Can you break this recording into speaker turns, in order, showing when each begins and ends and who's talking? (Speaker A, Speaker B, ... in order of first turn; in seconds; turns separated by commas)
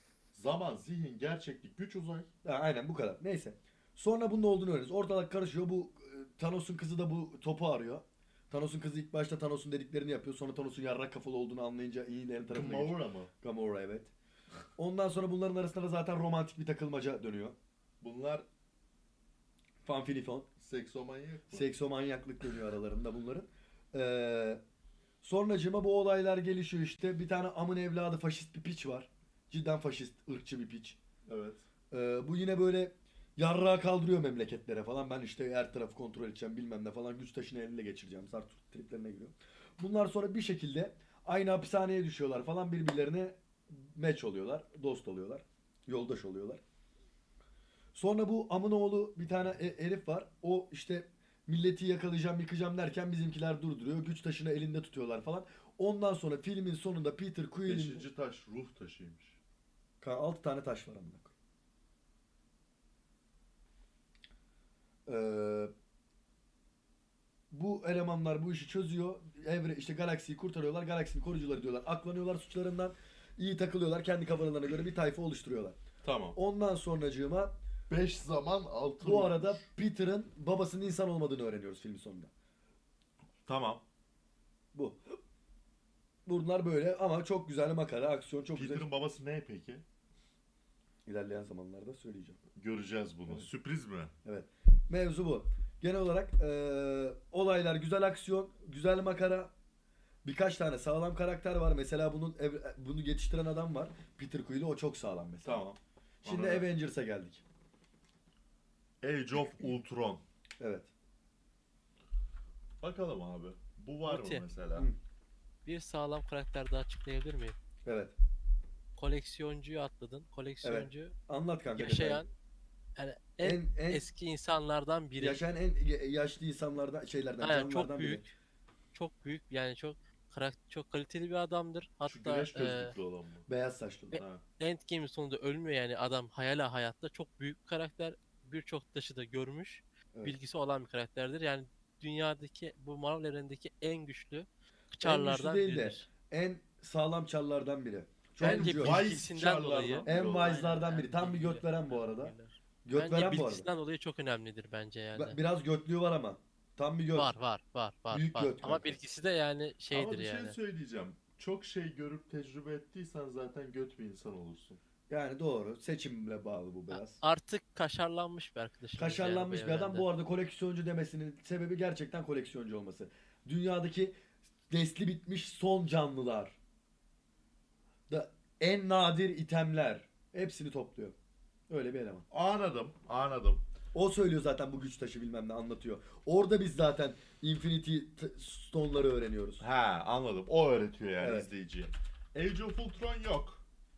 Speaker A: 0.3-2.3, Speaker B: 2.4-14.1, Speaker A: 12.5-13.3, Speaker B: 14.8-17.6, Speaker A: 18.0-18.4, Speaker B: 19.8-20.5, Speaker A: 20.6-21.6, Speaker B: 21.5-24.6, Speaker B: 25.2-31.0, Speaker A: 31.3-31.7, Speaker B: 31.9-46.6, Speaker B: 48.0-58.0, Speaker A: 57.7-59.4, Speaker B: 60.0-61.3, Speaker B: 65.1-65.7, Speaker B: 67.5-75.8, Speaker A: 76.0-76.4, Speaker B: 76.3-77.6, Speaker A: 77.9-79.7, Speaker B: 79.0-82.3, Speaker A: 83.5-83.8, Speaker B: 84.7-85.2, Speaker B: 86.3-88.9, Speaker A: 88.5-89.8, Speaker B: 91.1-92.4, Speaker A: 92.6-94.1, Speaker B: 94.2-99.5, Speaker B: 100.2-105.6, Speaker A: 105.5-106.7, Speaker B: 106.2-107.4, Speaker A: 109.0-110.2, Speaker B: 110.6-110.9, Speaker A: 112.8-114.9, Speaker C: 114.0-114.5, Speaker C: 115.7-117.6, Speaker B: 117.8-118.2, Speaker C: 119.0-121.2, Speaker B: 120.6-122.2, Speaker C: 121.7-122.3, Speaker C: 123.0-125.5, Speaker B: 123.4-124.1, Speaker B: 125.2-128.3, Speaker C: 127.4-128.3, Speaker C: 128.9-132.9, Speaker A: 132.1-133.5, Speaker B: 133.5-134.2, Speaker C: 134.1-146.1, Speaker A: 134.2-134.4, Speaker B: 145.0-149.0, Speaker A: 148.4-150.7, Speaker C: 148.4-155.4, Speaker B: 150.0-153.7, Speaker B: 155.2-157.4, Speaker C: 157.1-160.6, Speaker B: 158.1-159.0, Speaker A: 159.9-164.8, Speaker B: 165.1-167.2, Speaker C: 166.9-170.1, Speaker B: 169.0-174.2, Speaker B: 174.7-176.6, Speaker B: 178.1-181.2, Speaker B: 181.7-182.3, Speaker A: 182.3-183.7, Speaker B: 183.9-189.6, Speaker A: 189.6-193.6, Speaker B: 191.2-191.5